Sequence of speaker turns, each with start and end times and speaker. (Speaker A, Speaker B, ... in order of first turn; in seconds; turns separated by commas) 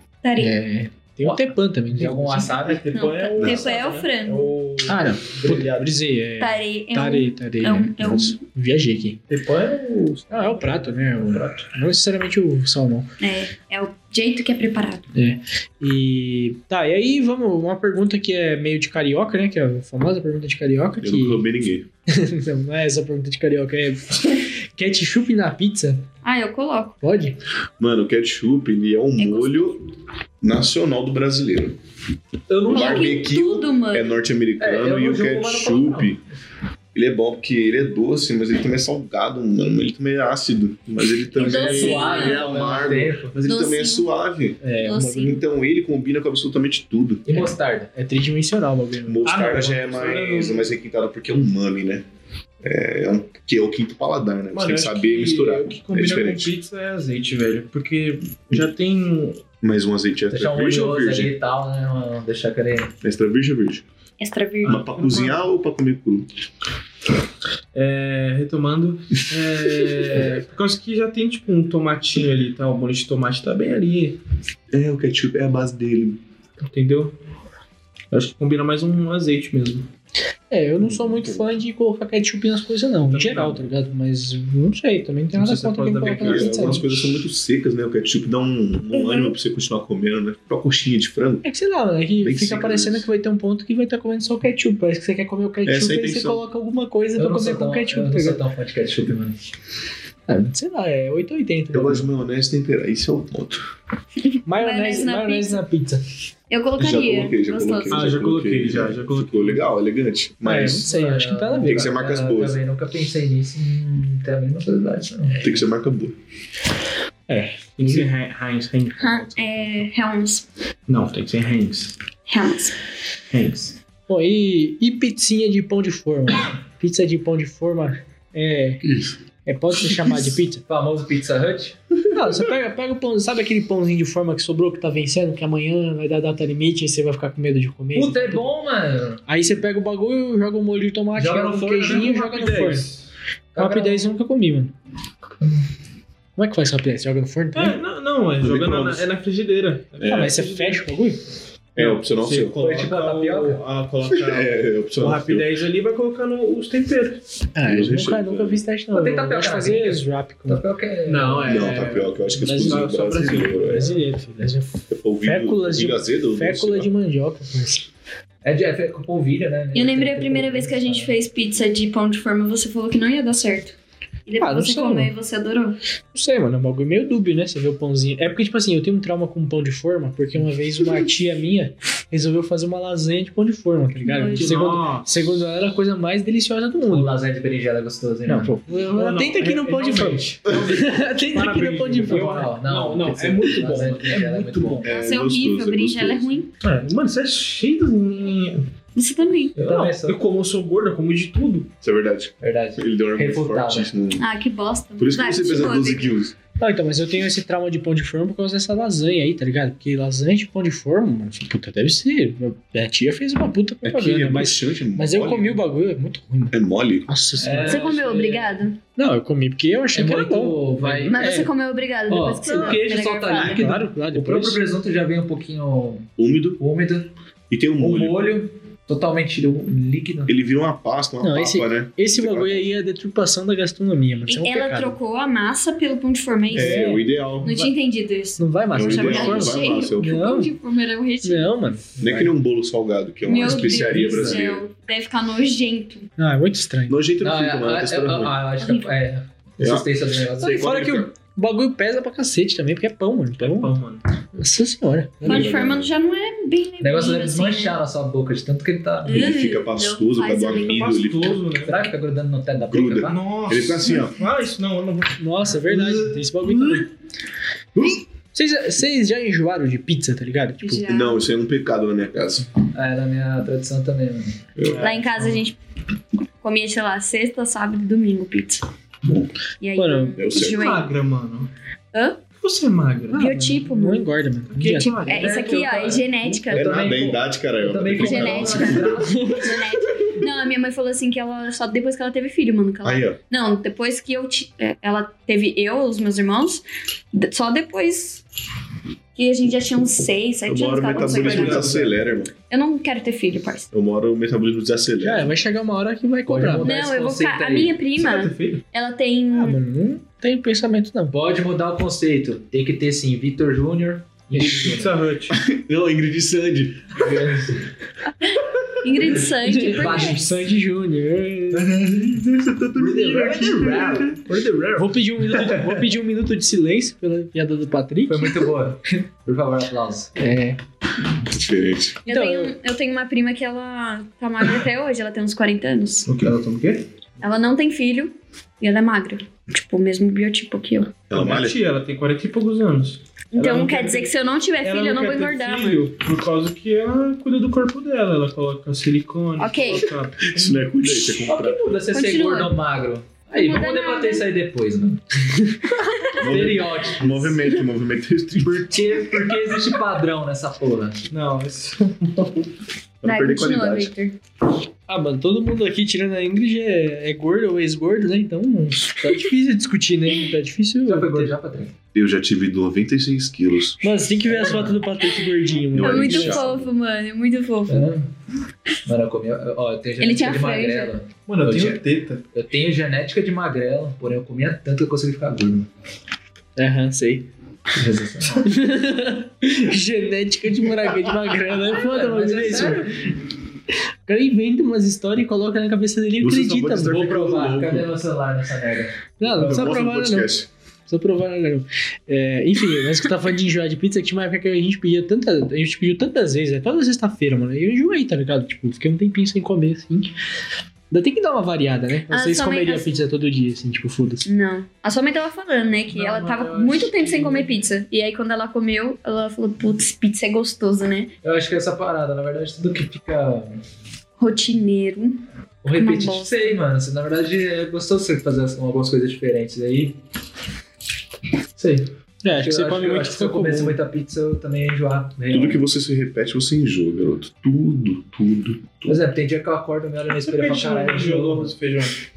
Speaker A: 0.2-0.5, Speaker B: 0.4-2.6, Speaker C: 1.2-2.9, Speaker D: 2.5-5.9, Speaker A: 2.9-4.5, Speaker E: 3.4-3.7, Speaker B: 4.8-9.2, Speaker A: 6.4-8.4, Speaker D: 9.3-11.7, Speaker B: 10.3-13.1, Speaker A: 13.2-15.1, Speaker B: 15.1-21.4, Speaker E: 21.0-21.9, Speaker B: 22.1-26.1, Speaker A: 26.2-27.0, Speaker B: 27.0-27.4, Speaker E: 27.8-29.8, Speaker A: 29.2-29.8, Speaker E: 30.4-31.8, Speaker C: 32.5-33.1, Speaker A: 32.7-34.1, Speaker E: 32.7-36.2, Speaker C: 34.6-36.1, Speaker E: 36.9-44.6, Speaker A: 41.4-42.5, Speaker C: 41.4-43.3, Speaker A: 43.4-44.1, Speaker B: 44.6-45.4, Speaker A: 44.8-45.4, Speaker E: 45.1-47.4, Speaker C: 47.2-47.9, Speaker B: 47.3-49.3, Speaker E: 49.1-52.0, Speaker D: 49.2-50.7, Speaker E: 52.6-56.5, Speaker D: 54.5-59.5, Speaker E: 59.6-61.3, Speaker C: 60.3-62.9, Speaker E: 63.0-63.8, Speaker A: 64.2-64.8, Speaker D: 64.6-65.4, Speaker E: 64.6-66.3, Speaker D: 67.7-74.2, Speaker E: 74.7-76.2, Speaker D: 76.6-77.1, Speaker D: 78.1-79.9, Speaker B: 80.5-86.9, Speaker E: 80.8-81.5, Speaker D: 83.0-83.7, Speaker D: 85.3-87.0, Speaker E: 86.2-91.4, Speaker B: 91.4-98.4, Speaker E: 92.2-93.1, Speaker E: 95.6-96.4, Speaker C: 97.2-99.3, Speaker B: 100.3-102.1, Speaker E: 101.7-103.7, Speaker A: 104.3-105.6, Speaker B: 104.5-106.0, Speaker A: 106.5-108.1, Speaker E: 106.8-110.8, Speaker D: 107.9-109.7, Speaker B: 110.4-111.9, Speaker C: 110.6-115.5, Speaker E: 111.6-112.6, Speaker E: 115.4-116.2, Speaker B: 117.3-118.1, Speaker D: 117.8-119.9, Speaker A: 119.0-120.5, Speaker D: 120.9-122.0, Speaker A: 122.3-122.8, Speaker D: 123.3-123.8, Speaker B: 124.1-128.9, Speaker B: 129.4-130.6, Speaker C: 130.7-131.8, Speaker B: 132.1-138.5, Speaker C: 137.9-139.2, Speaker B: 139.3-142.8, Speaker C: 141.2-142.1, Speaker D: 141.6-143.0, Speaker C: 143.5-144.1, Speaker B: 143.6-144.7, Speaker B: 146.3-147.8, Speaker D: 147.5-150.9, Speaker E: 148.4-149.1, Speaker E: 150.0-150.3, Speaker B: 150.0-151.2, Speaker E: 151.8-152.6, Speaker D: 151.8-157.2, Speaker C: 152.6-153.6, Speaker E: 154.1-155.5, Speaker B: 157.5-160.6, Speaker E: 157.6-158.6, Speaker C: 158.9-161.7, Speaker D: 161.1-163.8, Speaker E: 161.4-163.9, Speaker B: 161.7-167.9, Speaker E: 164.9-166.9, Speaker C: 168.4-171.1, Speaker A: 169.7-173.8, Speaker A: 174.3-175.8, Speaker B: 174.4-175.1, Speaker B: 176.1-187.1, Speaker A: 184.0-184.7, Speaker D: 184.3-185.2, Speaker C: 186.9-188.5, Speaker B: 188.2-192.5, Speaker D: 188.7-194.8, Speaker E: 190.4-190.7, Speaker C: 192.0-194.9, Speaker E: 194.8-196.3, Speaker A: 194.8-196.5, Speaker D: 196.6-198.7, Speaker A: 198.9-199.6, Speaker C: 199.6-200.2, Speaker D: 199.6-201.7, Speaker E: 201.8-204.2, Speaker C: 202.4-203.9, Speaker A: 204.2-206.1, Speaker E: 205.0-206.3, Speaker B: 206.6-217.9, Speaker E: 213.8-215.6, Speaker E: 216.5-217.1, Speaker C: 217.4-218.5, Speaker A: 217.6-218.8, Speaker B: 218.9-221.5, Speaker C: 219.9-221.4, Speaker A: 221.1-223.7, Speaker C: 222.1-227.1, Speaker B: 223.3-224.6, Speaker E: 226.2-226.6, Speaker E: 227.5-228.3, Speaker C: 227.8-230.3, Speaker E: 230.3-232.7, Speaker B: 231.2-235.0, Speaker A: 234.3-241.5, Speaker E: 236.5-237.7, Speaker B: 236.5-237.1, Speaker B: 238.4-240.5, Speaker E: 238.7-240.2, Speaker B: 241.2-242.3, Speaker E: 242.0-244.7, Speaker A: 243.2-246.1, Speaker C: 243.4-244.4, Speaker B: 246.2-247.0, Speaker E: 246.9-248.5, Speaker C: 247.2-250.8, Speaker A: 248.6-248.9, Speaker E: 249.6-251.1, Speaker B: 250.4-253.8, Speaker D: 253.4-254.0, Speaker B: 254.3-255.6, Speaker E: 255.2-255.9, Speaker A: 255.2-257.8, Speaker C: 256.8-259.3, Speaker A: 259.0-260.8, Speaker E: 259.1-261.5, Speaker D: 260.6-261.9, Speaker C: 261.6-263.2, Speaker E: 262.7-264.2, Speaker D: 263.1-266.8, Speaker B: 265.2-266.9, Speaker B: 268.3-270.8, Speaker A: 270.6-271.2, Speaker E: 270.9-272.5, Speaker C: 272.7-274.4, Speaker E: 274.6-274.9, Speaker D: 274.6-275.4, Speaker A: 274.8-275.6, Speaker A: 276.4-278.6, Speaker E: 279.0-279.3, Speaker A: 279.6-280.9, Speaker B: 279.8-280.2, Speaker E: 280.2-280.7, Speaker D: 280.4-281.5, Speaker A: 281.9-282.2, Speaker D: 282.4-283.3, Speaker B: 283.1-285.1, Speaker A: 283.1-286.9, Speaker D: 284.5-285.7, Speaker C: 285.1-289.4, Speaker E: 286.5-289.0, Speaker A: 287.9-298.2, Speaker B: 289.0-289.6, Speaker E: 292.8-293.2, Speaker A: 299.1-301.7, Speaker E: 300.4-302.3, Speaker D: 300.9-302.0, Speaker A: 302.5-303.7, Speaker E: 303.7-305.3, Speaker B: 305.0-306.8, Speaker C: 306.2-307.8, Speaker A: 306.6-309.6, Speaker D: 308.0-308.6, Speaker B: 309.3-311.1, Speaker C: 311.1-315.0, Speaker D: 314.4-315.4, Speaker E: 315.3-317.4, Speaker C: 316.9-317.6, Speaker A: 318.1-320.2, Speaker C: 319.2-320.4, Speaker B: 319.4-321.7, Speaker D: 321.6-322.2, Speaker E: 321.7-324.1, Speaker C: 322.8-324.2, Speaker D: 324.1-325.1, Speaker B: 324.7-328.5, Speaker C: 328.1-330.1, Speaker B: 330.2-330.6, Speaker E: 331.2-332.0, Speaker A: 332.0-336.1, Speaker B: 332.1-332.5, Speaker D: 336.1-336.8, Speaker A: 337.2-341.0, Speaker E: 341.1-341.6, Speaker D: 341.1-344.1, Speaker A: 343.3-345.9, Speaker D: 344.6-350.7, Speaker A: 349.4-349.9, Speaker E: 350.2-351.6, Speaker C: 351.2-355.0, Speaker A: 351.9-352.6, Speaker A: 353.3-354.3, Speaker A: 355.8-356.2, Speaker C: 356.1-357.4, Speaker E: 356.2-359.1, Speaker C: 358.5-361.1, Speaker D: 361.1-362.4, Speaker E: 363.0-363.9, Speaker A: 363.0-364.2, Speaker B: 364.9-371.3, Speaker C: 370.9-371.7, Speaker E: 371.9-373.8, Speaker B: 373.8-376.5, Speaker C: 374.2-374.8, Speaker E: 375.7-376.7, Speaker A: 375.8-377.9, Speaker C: 377.7-378.1, Speaker C: 378.8-385.7, Speaker A: 380.0-380.9, Speaker D: 381.3-382.2, Speaker B: 386.6-387.3, Speaker C: 387.7-388.5, Speaker B: 388.4-393.1, Speaker C: 391.7-392.9, Speaker B: 393.7-397.1, Speaker E: 396.2-397.9, Speaker C: 396.8-399.7, Speaker B: 399.2-400.3, Speaker E: 399.3-400.5, Speaker B: 400.9-410.1, Speaker B: 410.9-414.3, Speaker A: 412.1-412.9, Speaker A: 414.2-421.1, Speaker D: 415.9-417.4, Speaker C: 416.8-417.4, Speaker C: 421.2-423.6, Speaker A: 424.2-426.3, Speaker C: 425.6-430.0, Speaker D: 431.6-431.8, Speaker B: 432.2-433.8, Speaker C: 432.3-435.6, Speaker E: 435.3-439.1, Speaker C: 438.9-441.5, Speaker D: 440.2-442.0